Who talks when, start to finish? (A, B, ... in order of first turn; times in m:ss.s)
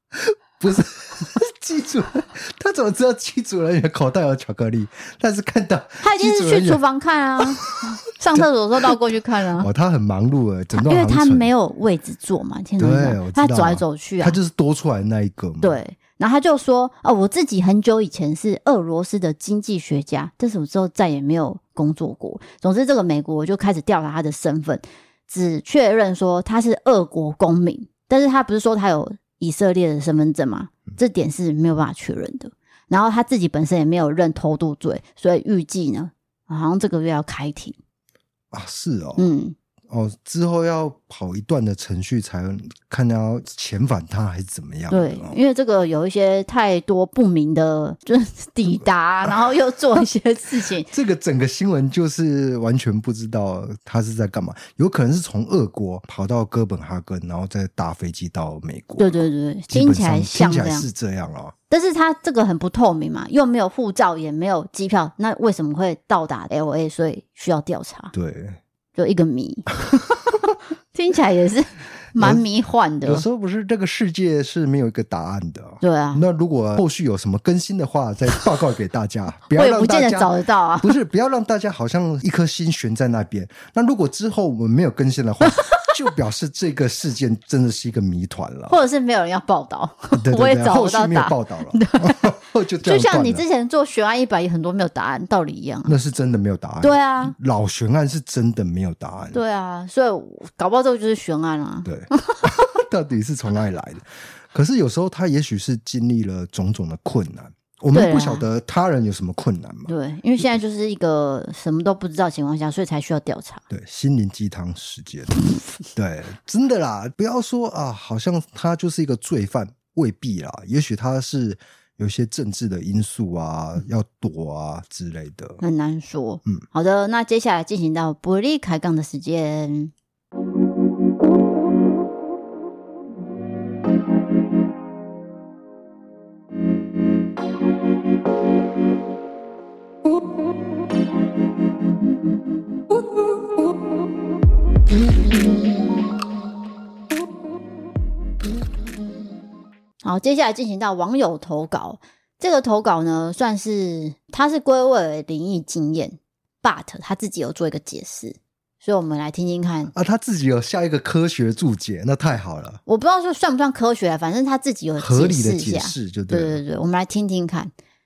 0:00.2-0:06.8 A
0:06.0-0:09.7 B
0:07.4-0:07.8 A
0:08.3-0:09.0 A
0:09.6-0:11.5 A
0:10.7-0:14.4 B
0:12.8-0:15.8 A
0:15.6-0:37.8 B
0:38.5-0:39.3 A
0:39.2-0:39.6 B
0:39.9-0:45.4 A
0:44.9-0:50.9 B
0:50.9-1:01.5 A
0:59.0-1:00.9 B
1:01.7-1:08.1 B
1:08.1-1:08.6 A
1:09.0-1:09.8 B
1:10.9-1:13.2 B
1:12.2-1:12.4 A
1:13.0-1:28.8 A
1:15.8-1:16.2 B
1:19.5-1:21.0 B
1:25.5-1:25.7 B
1:28.7-1:36.0 B
1:30.1-1:33.4 A
1:35.9-1:39.4 A
1:36.8-1:37.4 B
1:39.3-1:42.4 B
1:41.8-1:49.9 A
1:47.9-1:48.4 B
1:49.9-1:53.6 B
1:53.7-1:55.4 A
1:55.9-2:05.6 A
2:05.6-2:09.9 B
2:30.0-2:39.9 B
2:39.9-2:42.8 A
2:42.9-2:47.7 B
2:45.0-2:46.6 A